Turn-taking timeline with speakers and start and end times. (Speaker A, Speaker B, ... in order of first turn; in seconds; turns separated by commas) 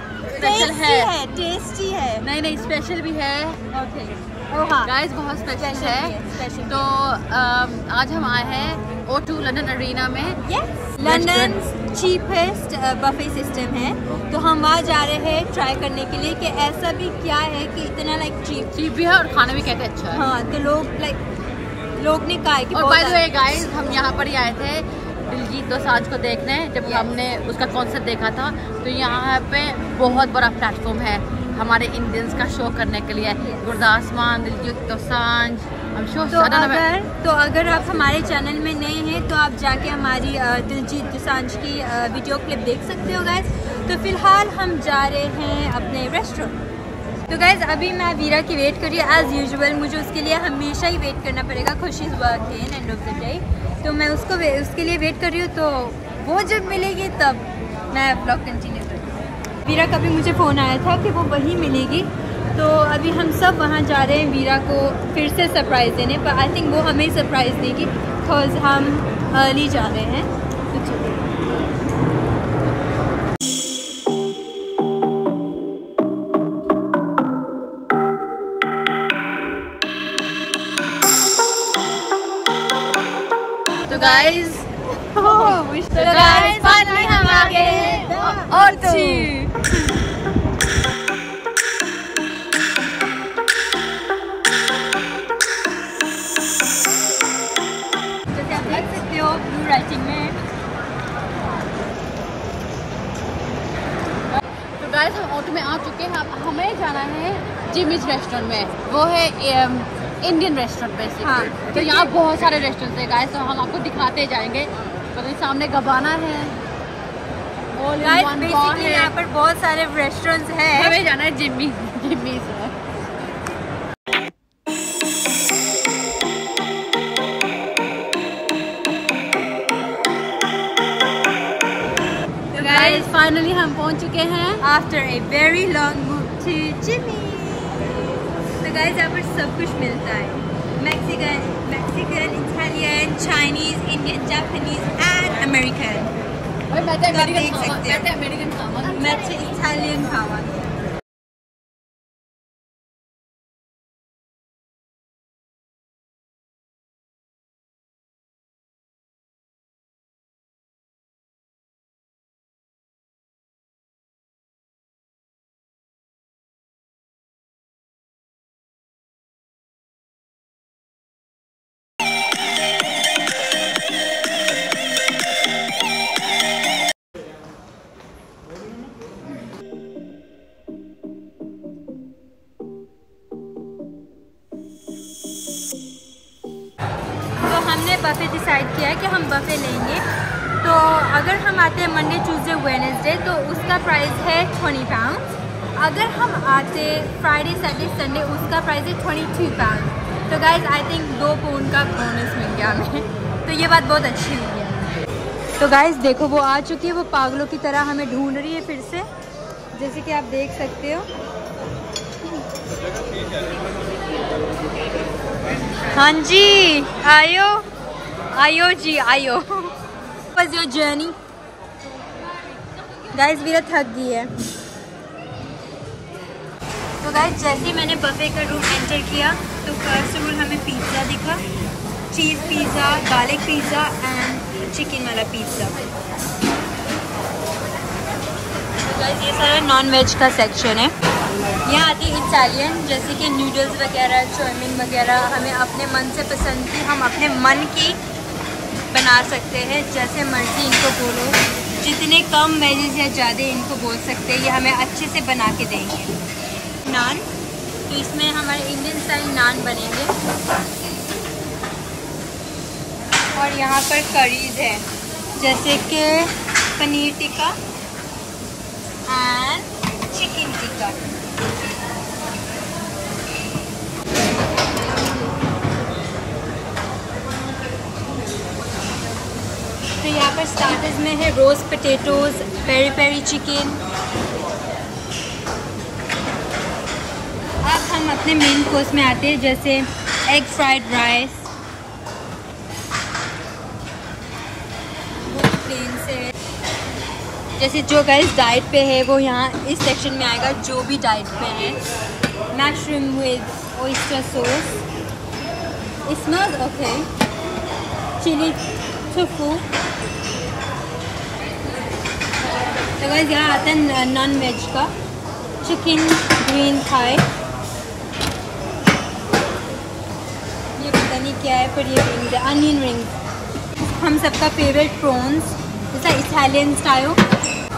Speaker A: 0.3-1.1, Speaker B: 0.3-2.2, Speaker A: 2.2-3.6, Speaker B: 3.7-4.9, Speaker A: 4.8-6.1, Speaker B: 5.5-6.9, Speaker A: 6.7-10.4, Speaker B: 10.4-18.7, Speaker A: 11.0-11.6, Speaker A: 18.7-20.2, Speaker B: 20.1-21.2, Speaker B: 21.9-23.7, Speaker A: 22.7-36.8, Speaker B: 26.8-27.1, Speaker B: 36.3-46.6, Speaker B: 47.3-59.1, Speaker B: 59.6-71.2, Speaker A: 83.9-89.4, Speaker B: 83.9-84.3, Speaker B: 85.1-89.5, Speaker B: 98.3-100.4, Speaker A: 104.8-116.6, Speaker B: 111.2-112.1, Speaker A: 117.7-119.1, Speaker B: 118.0-121.0, Speaker A: 120.7-122.7, Speaker B: 132.5-133.1, Speaker A: 132.6-134.6, Speaker B: 134.6-138.0, Speaker B: 138.6-146.1, Speaker A: 146.7-149.2, Speaker B: 147.0-148.1, Speaker B: 148.8-150.5, Speaker B: 187.3-190.0, Speaker B: 190.6-195.2, Speaker B: 195.8-204.9, Speaker B: 205.6-209.1, Speaker B: 209.7-211.1, Speaker B: 215.9-217.7, Speaker B: 218.3-219.7, Speaker B: 220.3-221.2, Speaker B: 223.1-224.3, Speaker B: 227.0-231.4, Speaker B: 232.1-235.8, Speaker B: 238.8-240.9, Speaker B: 241.6-248.0, Speaker B: 248.9-256.1, Speaker B: 256.8-257.2, Speaker B: 257.9-260.1, Speaker B: 263.3-264.8, Speaker B: 265.4-267.6, Speaker B: 269.1-271.0, Speaker B: 280.0-283.8, Speaker B: 287.6-291.5, Speaker B: 295.2-296.3, Speaker B: 297.6-301.8, Speaker B: 302.5-304.8, Speaker B: 306.1-307.1, Speaker B: 308.2-308.6, Speaker B: 309.1-309.6, Speaker B: 313.0-314.9, Speaker B: 315.6-317.2, Speaker B: 320.8-323.1, Speaker B: 323.9-327.2